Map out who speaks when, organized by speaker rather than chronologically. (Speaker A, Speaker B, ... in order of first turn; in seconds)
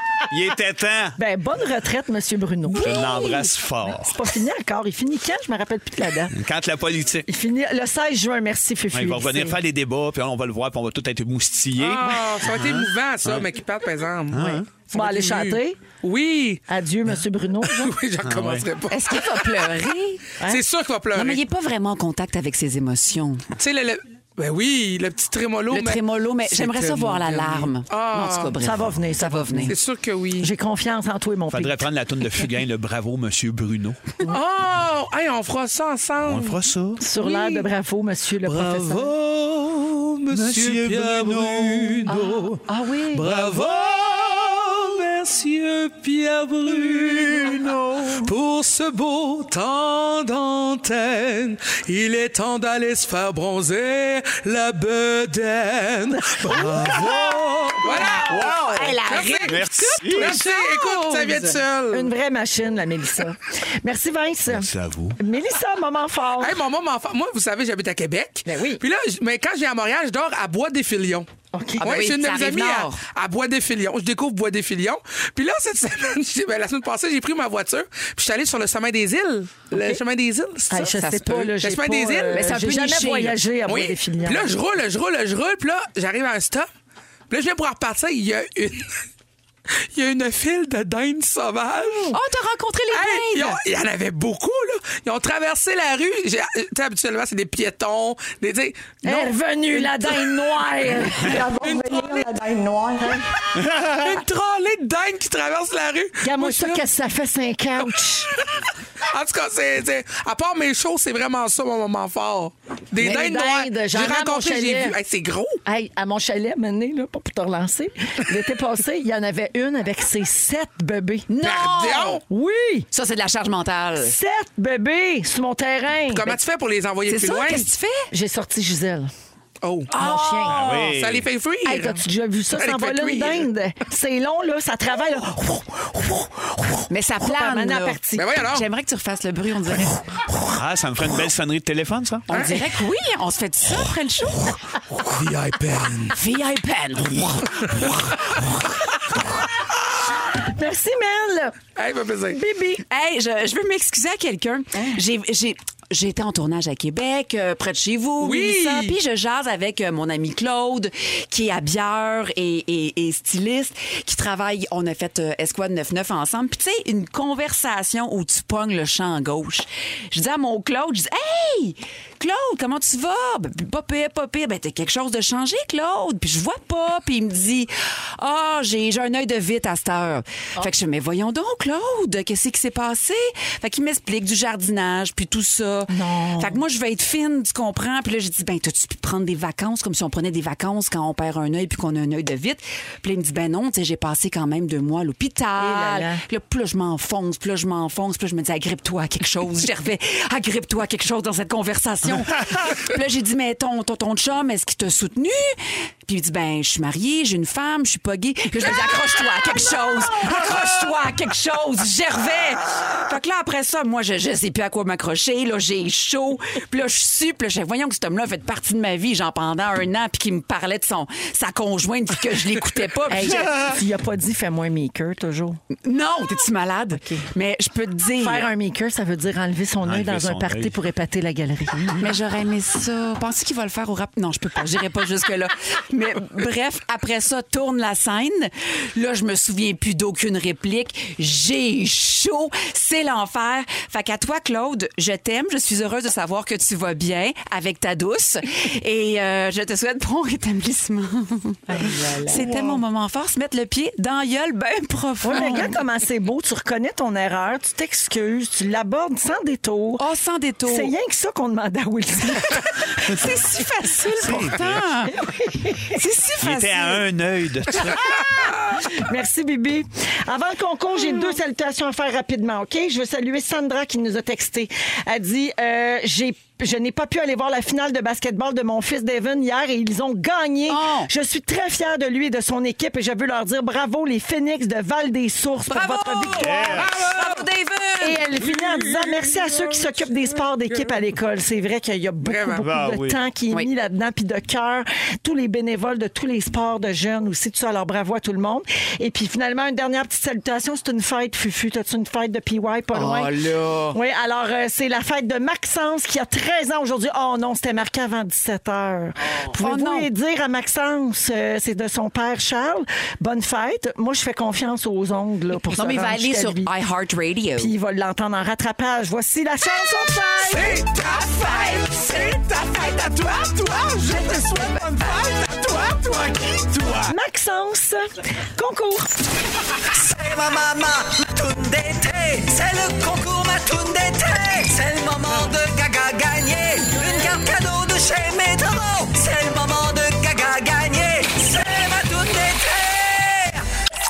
Speaker A: 0.3-1.2, 2.7-4.2, 6.3-7.3, 8.9-13.5, 14.3-14.7, 18.2-18.6, 31.5-34.0, 36.2-37.0, 38.5-42.5, 43.2-43.8, 46.7-48.3, 56.4-57.7, 58.2-58.9, 59.4-60.4, 64.5-65.2, 103.5-104.2, 130.4-131.3, 140.4-142.3, 229.8-230.7, 264.2-264.9, 266.4-268.1, 286.4-286.9, 292.6-293.2
Speaker B: 1.2-6.3, 7.3-9.6, 14.9-15.8, 16.7-17.9, 28.6-29.7, 30.4-31.8, 37.0-39.1, 42.1-43.2, 56.3-57.7, 58.3-58.7, 61.9-66.6, 68.5-68.8, 71.5-71.8, 80.7-84.5, 91.8-92.1, 99.0-103.2, 106.2-108.3, 113.0-115.0, 115.7-121.3, 122.3-122.9, 124.0-126.4, 128.1-129.1, 129.9-130.8, 131.6-138.3, 150.3-151.6, 152.3-152.8, 185.9-186.6, 195.6-196.2, 223.1-225.6, 228.2-232.1, 251.7-252.8, 255.2-260.0, 260.6-263.3, 265.1-265.9, 267.9-286.8, 288.0-303.3, 303.9-316.7, 317.6-320.8, 327.1-329.1
Speaker C: 11.8-16.6, 17.6-19.6, 20.4-21.4, 23.6-28.5, 29.6-30.5, 34.3-36.6, 37.1-37.7, 38.5-42.5, 43.1-47.6, 48.2-62.1, 66.4-71.3, 71.8-82.5, 83.7-86.7, 87.3-89.0, 89.9-92.1, 92.9-100.6, 101.1-102.3, 103.8-106.9, 107.8-108.4, 109.1-115.6, 121.4-122.2, 126.1-127.7, 129.6-133.5, 138.2-138.7, 142.3-142.6, 145.0-146.1, 151.8-152.4, 158.2-158.9, 286.8-287.4, 288.4-291.0, 292.2-292.6, 320.6-321.3, 323.4-324.4, 325.4-327.0
Speaker D: 18.9-20.2, 21.1-23.4, 25.7-29.7, 58.7-61.6, 71.8-73.0, 80.9-81.4, 82.3-83.4, 92.1-93.6, 121.3-122.2, 122.9-124.1, 127.1-128.1, 129.9-130.4, 136.9-138.0, 138.5-140.0, 142.3-144.6, 146.1-148.2, 152.9-223.5, 225.8-228.5, 232.0-255.7, 260.0-260.9, 263.1-265.1, 265.9-267.0, 280.7-281.1, 285.7-288.2, 302.9-304.0, 309.6-310.1, 315.7-317.7, 320.7-323.4, 324.0-325.2
Speaker E: 330.2-336.7, 337.3-341.7